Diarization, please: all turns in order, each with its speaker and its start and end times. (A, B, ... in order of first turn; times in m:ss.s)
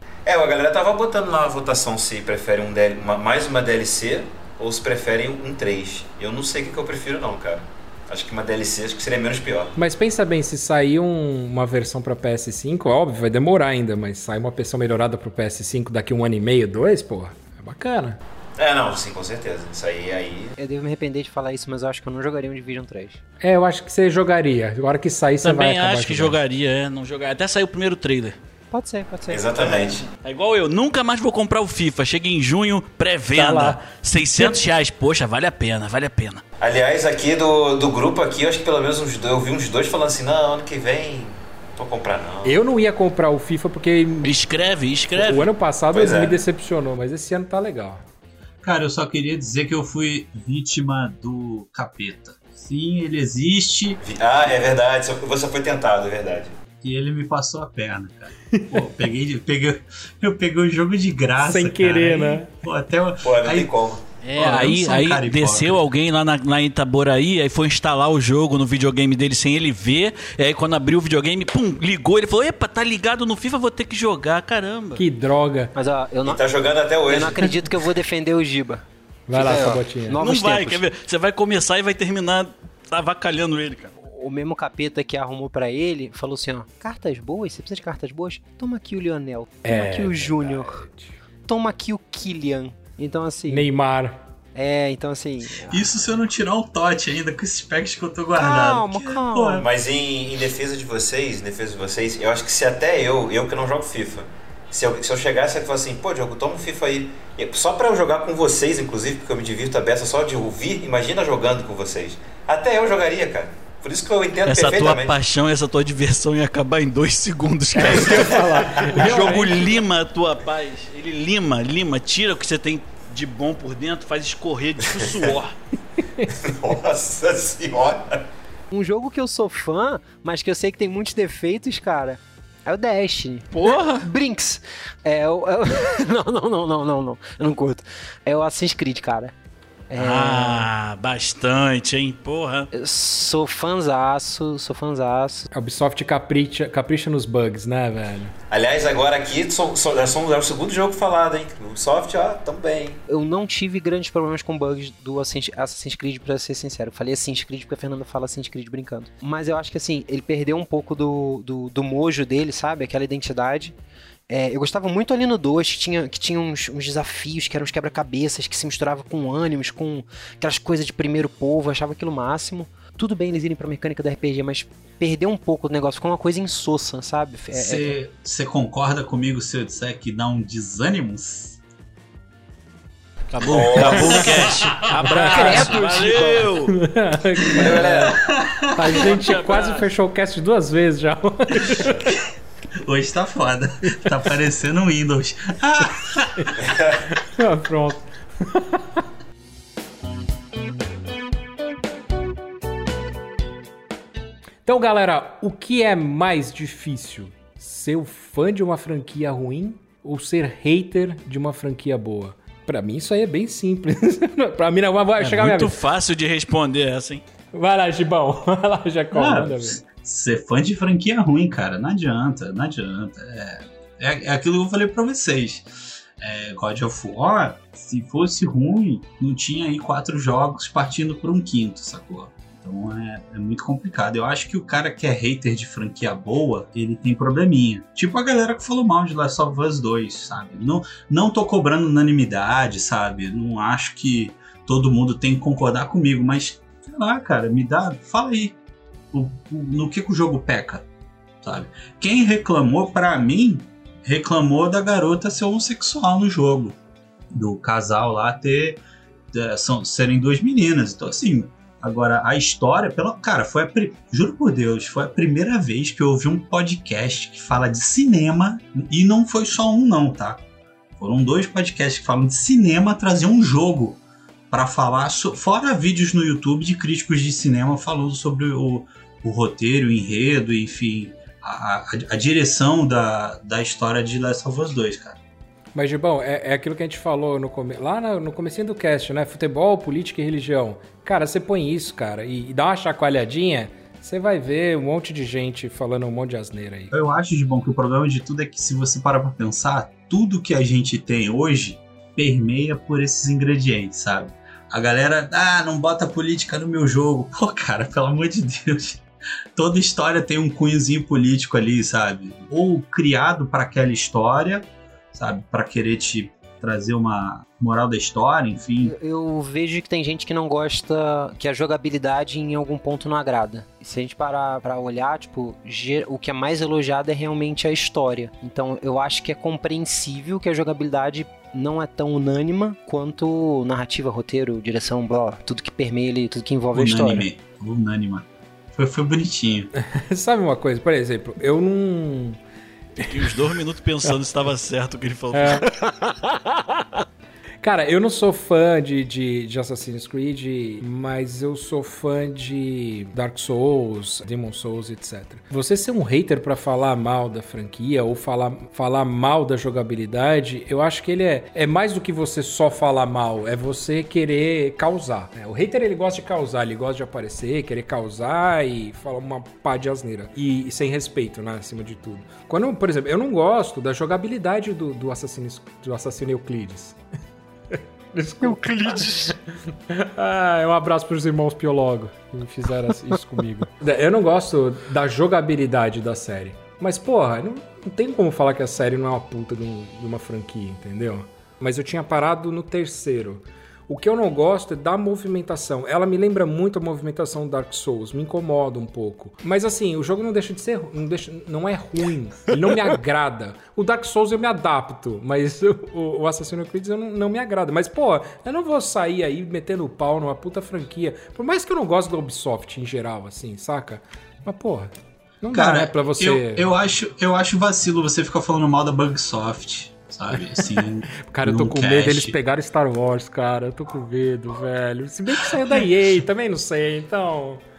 0:00.2-0:09.7 A
0:09.7-0:18.2 B
0:18.6-0:20.5 A
0:20.6-0:23.2 C
0:23.4-0:26.4 B
0:25.4-0:28.4 D
0:28.7-0:30.0 C
0:29.3-0:30.0 A
0:30.2-0:36.4 D
0:33.3-0:33.8 B
0:36.6-0:42.6 A
0:42.4-0:44.3 B
0:44.2-0:45.5 D
0:45.1-0:48.0 B
0:45.9-0:46.4 A
0:48.6-0:54.0 E
0:54.0-0:56.5 A
0:56.8-1:03.7 E
1:01.4-1:02.5 B
1:03.2-1:04.0 A
1:04.2-1:15.0 D
1:04.3-1:05.8 E
1:15.0-1:15.7 B
1:15.7-1:16.4 C
1:16.2-1:17.6 A
1:17.1-1:20.8 C
1:19.3-1:20.2 B
1:20.2-1:23.9 D
1:24.0-1:30.8 C
1:29.6-1:31.1 B
1:31.5-1:33.7 C
1:33.5-1:34.2 B
1:34.5-1:35.8 C
1:35.6-1:39.7 E
1:38.3-1:39.7 C
1:39.6-1:55.2 A
1:54.4-2:05.6 D
1:57.7-1:59.8 B
1:57.8-1:58.6 A
2:04.8-2:05.3 A
2:06.3-2:08.2 A
2:08.7-2:19.3 C
2:13.5-2:14.1 D
2:19.9-2:20.7 C
2:19.9-2:22.7 D
2:22.7-2:25.5 C
2:25.5-2:28.3 B
2:28.5-2:33.0 A
2:33.1-2:43.7 C
2:44.3-2:57.9 C
2:57.5-3:01.6 E
3:03.3-3:06.7 D
3:03.4-3:04.5 A
3:03.7-3:04.8 E
3:05.0-3:06.5 C
3:05.0-3:08.2 B
3:07.5-3:08.3 A
3:08.0-3:08.9 E
3:08.7-3:12.1 B
3:08.8-3:09.9 D
3:11.7-3:12.2 E
3:12.8-3:16.5 E
3:16.6-3:17.0 A
3:17.1-3:18.8 B
3:24.6-3:35.8 B
3:35.2-3:37.2 D
3:37.5-3:39.8 B
3:39.1-4:08.6 E
4:09.1-4:10.8 E
4:11.4-4:16.8 E
4:17.3-4:18.8 E
4:19.3-4:30.4 E
4:31.0-4:34.0 E
4:34.5-4:45.2 E
4:45.7-4:56.9 B
4:56.9-5:09.0 E
5:09.5-5:19.0 E
5:18.8-5:37.2 C
5:36.7-5:39.7 E
5:39.8-5:42.4 B
5:43.0-5:45.8 D
5:45.3-5:45.7 B
5:47.6-6:17.0 B
6:17.7-6:56.7 B
6:18.4-6:19.3 C
6:55.5-7:02.4 E
7:00.3-7:00.8 B
7:01.3-7:07.6 B